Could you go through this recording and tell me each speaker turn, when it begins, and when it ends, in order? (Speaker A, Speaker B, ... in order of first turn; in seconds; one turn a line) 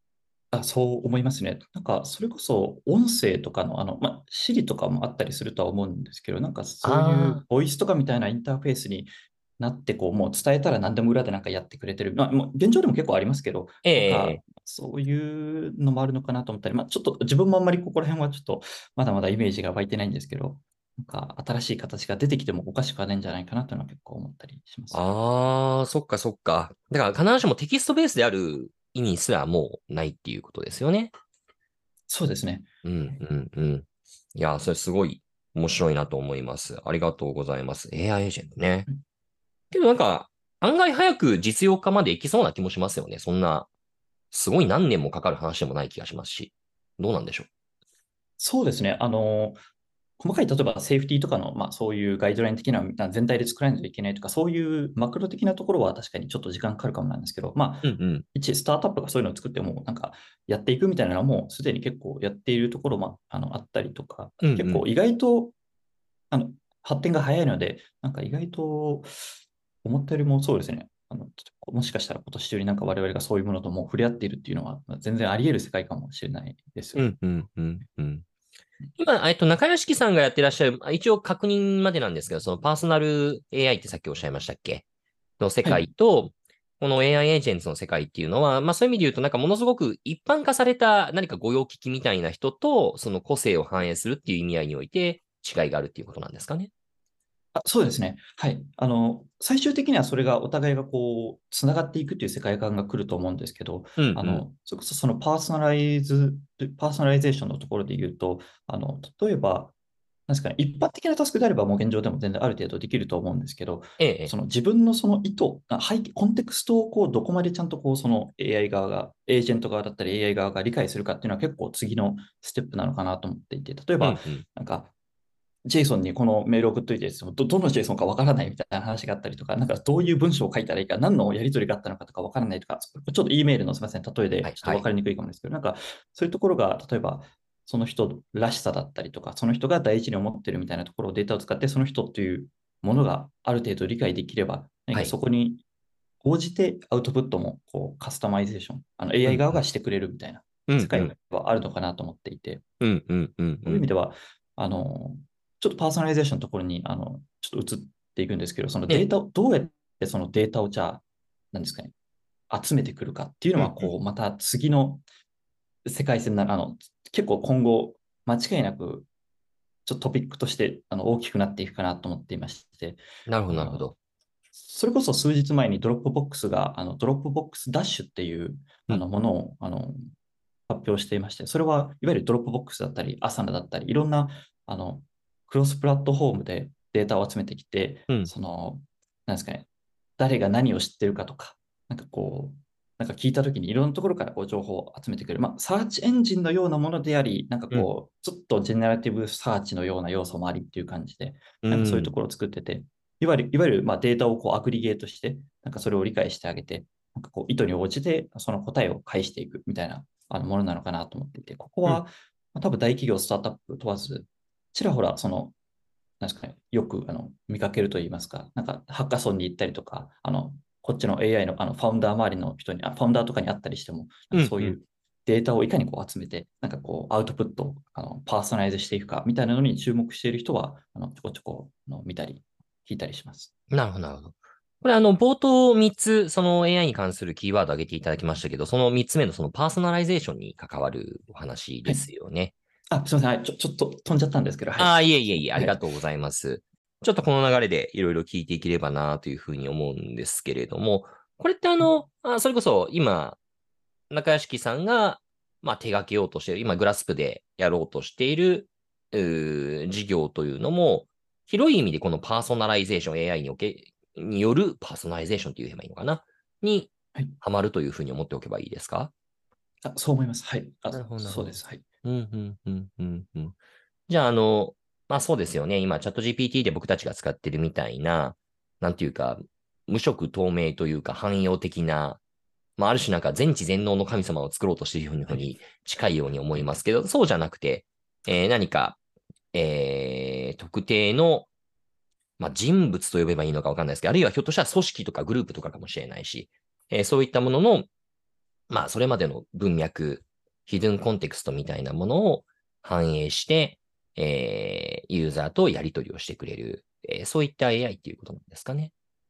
Speaker A: 0.5-25.0
Speaker B: 6.8-7.4
Speaker B: 13.8-14.4
Speaker B: 24.9-31.1
Speaker A: 32.1-32.7
Speaker B: 32.8-38.9
Speaker B: 39.7-43.7
Speaker B: 44.3-47.5
Speaker A: 48.4-49.6
Speaker A: 50.2-65.5
Speaker B: 57.8-58.2
Speaker B: 64.4-64.8
Speaker A: 66.3-69.1
Speaker A: 69.8-77.1
Speaker B: 77.0-78.2
Speaker B: 79.0-84.8
Speaker B: 85.4-96.7
Speaker A: 97.5-109.7
Speaker B: 104.0-104.4
Speaker A: 110.3-124.9
Speaker B: 114.0-114.3
Speaker B: 124.0-124.4
Speaker A: 125.7-145.6
Speaker B: 134.4-134.8
Speaker A: 146.2-152.6
Speaker B: 149.2-149.6
Speaker B: 150.7-151.1
Speaker B: 152.8-153.9
Speaker A: 153.6-161.9
Speaker A: 162.5-165.0
Speaker B: 163.6-163.9
Speaker A: 165.8-169.1
Speaker A: 169.8-173.9
Speaker B: 173.3-173.9
Speaker A: 174.6-180.1
Speaker A: 180.7-215.5
Speaker B: 201.6-202.1
Speaker A: 216.2-233.5
Speaker B: 224.3-224.8
Speaker B: 233.7-242.5
Speaker A: 242.9-245.8
Speaker B: 244.8-253.4
Speaker B: 254.1-269.1
Speaker A: 269.8-271.9
Speaker B: 270.9-273.6
Speaker B: 274.1-282.2
Speaker B: 282.8-289.0
Speaker A: 286.5-286.8
Speaker B: 289.5-291.5
Speaker B: 292.4-297.9
Speaker B: 298.7-308.9